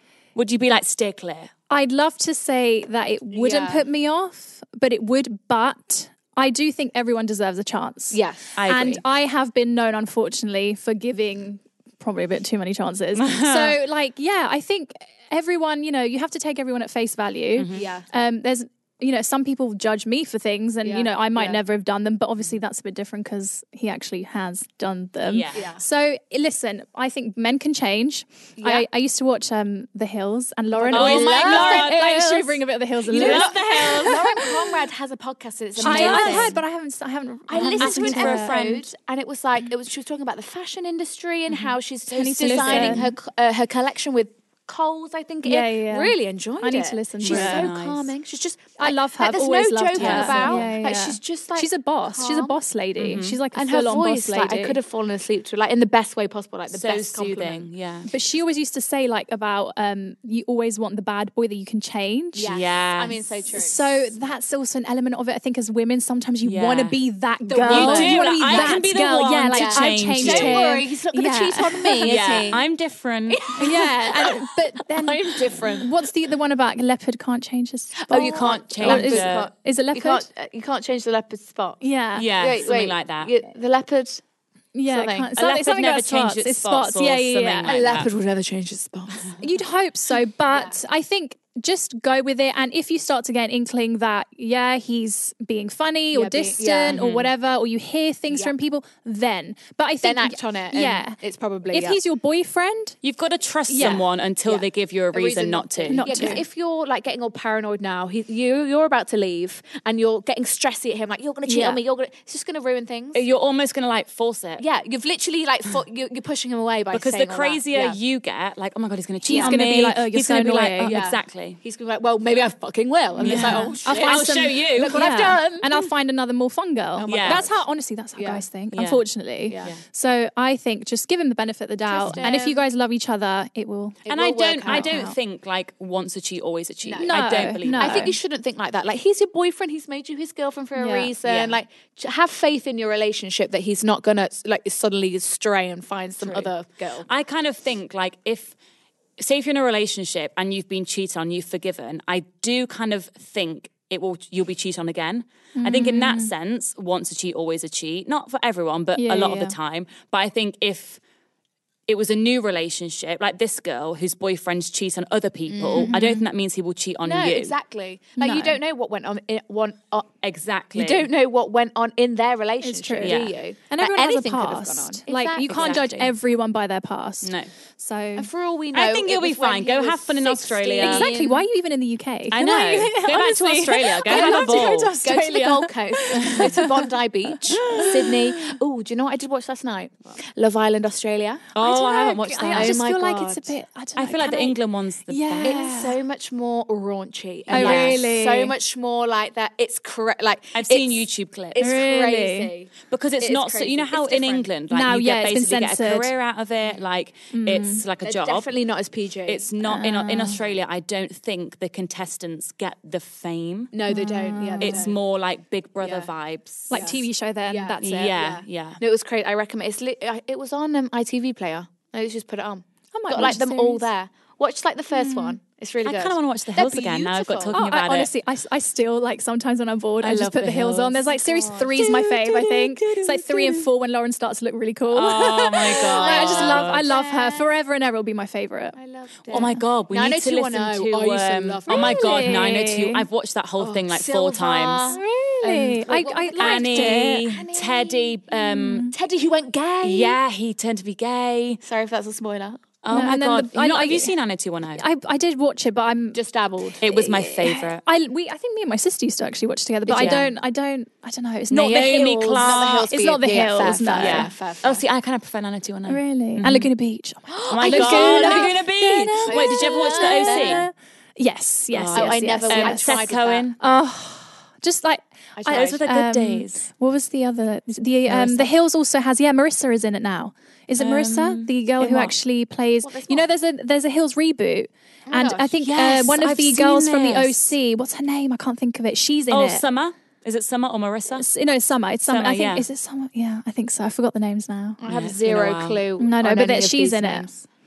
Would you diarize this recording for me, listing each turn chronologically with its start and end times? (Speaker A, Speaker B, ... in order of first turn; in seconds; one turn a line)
Speaker A: 0.3-1.5
Speaker B: 1.7-34.5
Speaker C: 3.3-3.8
Speaker C: 8.1-9.0
Speaker A: 8.6-9.0
Speaker A: 13.2-13.7
Speaker A: 17.6-17.9
Speaker C: 17.7-18.1
Speaker C: 20.8-21.6
Speaker A: 25.2-25.6
Speaker C: 25.5-25.8
Speaker C: 28.6-28.8
Speaker C: 30.7-32.0
Speaker A: 30.9-32.6
Speaker C: 33.1-36.6
Speaker A: 33.1-34.3
Speaker A: 35.8-36.6
Speaker B: 35.8-38.6
Speaker C: 37.5-52.5
Speaker A: 37.5-38.9
Speaker A: 41.5-41.7
Speaker B: 42.1-43.1
Speaker A: 42.4-43.0
Speaker B: 45.4-47.7
Speaker A: 47.2-48.1
Speaker B: 48.8-54.8
Speaker A: 49.9-50.7
Speaker A: 53.0-53.4
Speaker C: 53.5-57.7
Speaker A: 56.7-58.1
Speaker B: 58.1-62.5
Speaker C: 62.3-64.2
Speaker A: 62.5-63.2
Speaker B: 63.5-72.6
Speaker A: 66.4-67.0
Speaker C: 67.5-68.8
Speaker A: 67.7-70.6
Speaker C: 69.5-72.6
Speaker A: 72.0-73.6
Speaker C: 73.3-75.9
Speaker B: 73.6-80.3
Speaker C: 78.1-81.8
Speaker A: 78.3-79.5
Speaker B: 81.8-82.3
Speaker A: 82.2-83.3
Speaker C: 82.3-84.2
Speaker B: 84.8-87.8
Speaker C: 84.9-85.3
Speaker A: 85.3-88.1
Speaker C: 87.6-89.4
Speaker B: 89.4-101.2
Speaker C: 96.1-97.0
Speaker A: 96.9-97.3
Speaker C: 100.0-102.0
Speaker B: 101.7-103.0
Speaker A: 103.0-106.4
Speaker B: 103.7-104.0
Speaker C: 103.8-113.2
Speaker B: 105.9-106.4
Speaker B: 111.4-111.8
Speaker A: 113.1-114.6
Speaker C: 114.6-118.0
Speaker A: 116.9-121.6
Speaker C: 119.3-119.6
Speaker B: 119.3-120.9
Speaker C: 120.8-125.8
Speaker A: 123.2-125.2
Speaker B: 123.2-134.0
Speaker C: 127.0-127.6
Speaker A: 127.0-127.4
Speaker C: 128.2-128.4
Speaker A: 128.7-129.0
Speaker C: 129.5-129.7
Speaker C: 131.9-132.6
Speaker C: 134.1-134.9
Speaker A: 134.1-138.2
Speaker B: 134.7-135.2
Speaker C: 136.9-147.1
Speaker B: 137.0-138.2
Speaker B: 140.8-141.1
Speaker A: 141.2-141.6
Speaker A: 146.2-146.5
Speaker A: 147.1-148.5
Speaker A: 149.2-161.0
Speaker B: 155.6-156.3
Speaker B: 158.9-159.6
Speaker A: 161.9-167.6
Speaker C: 165.5-166.0
Speaker B: 165.8-166.3
Speaker C: 167.0-170.1
Speaker B: 168.2-168.6
Speaker A: 170.2-171.1
Speaker C: 170.8-176.1
Speaker B: 172.6-178.3
Speaker A: 173.0-173.3
Speaker A: 175.5-175.8
Speaker A: 177.2-177.5
Speaker C: 178.2-181.4
Speaker A: 178.7-181.1
Speaker B: 180.8-186.9
Speaker A: 182.3-185.0
Speaker C: 184.1-191.5
Speaker A: 187.5-188.2
Speaker B: 187.6-188.5
Speaker A: 191.5-192.8
Speaker B: 191.6-194.6
Speaker C: 192.5-193.5
Speaker A: 194.0-195.6
Speaker B: 195.1-196.0
Speaker C: 195.4-204.5
Speaker A: 197.5-198.0
Speaker B: 197.5-198.6
Speaker A: 200.5-201.6
Speaker B: 201.6-202.5
Speaker A: 202.9-208.5
Speaker B: 204.7-206.1
Speaker B: 207.3-207.8
Speaker C: 208.0-209.4
Speaker A: 209.3-213.7
Speaker B: 209.6-210.4
Speaker C: 213.7-214.9
Speaker B: 213.9-214.9
Speaker A: 214.6-217.0
Speaker C: 215.8-216.1
Speaker B: 216.7-218.2
Speaker C: 216.7-227.6
Speaker A: 217.8-218.8
Speaker B: 222.9-223.9
Speaker B: 224.9-225.4
Speaker A: 225.8-228.1
Speaker B: 227.5-238.8
Speaker A: 230.0-231.0
Speaker C: 231.0-231.9
Speaker A: 231.6-233.7
Speaker A: 234.9-236.9
Speaker C: 235.7-237.5
Speaker C: 238.8-242.4
Speaker A: 239.3-245.0
Speaker B: 241.7-243.1
Speaker C: 243.6-248.2
Speaker B: 244.9-247.3
Speaker A: 246.4-248.9
Speaker B: 248.3-248.9
Speaker C: 248.9-250.2
Speaker A: 249.8-251.6
Speaker C: 251.6-252.7
Speaker A: 252.8-254.8
Speaker B: 252.9-254.2
Speaker B: 254.8-256.2
Speaker C: 256.1-256.8
Speaker A: 256.8-257.8
Speaker B: 256.9-264.3
Speaker C: 259.9-260.3
Speaker A: 259.9-260.3
Speaker A: 261.5-262.9
Speaker C: 261.7-264.8
Speaker A: 263.7-266.7
Speaker B: 265.9-272.9
Speaker C: 267.4-268.6
Speaker A: 267.5-270.7
Speaker C: 269.3-270.7
Speaker A: 271.7-273.6
Speaker C: 271.9-273.5
Speaker B: 273.6-289.6
Speaker C: 275.4-275.8
Speaker A: 275.5-276.6
Speaker A: 278.1-278.5
Speaker A: 280.8-282.1
Speaker C: 282.8-283.3
Speaker C: 285.1-285.6
Speaker A: 285.6-287.5
Speaker A: 289.3-291.3
Speaker B: 291.2-294.8
Speaker A: 292.1-292.6
Speaker C: 294.8-297.4
Speaker A: 294.9-295.8
Speaker B: 296.0-297.3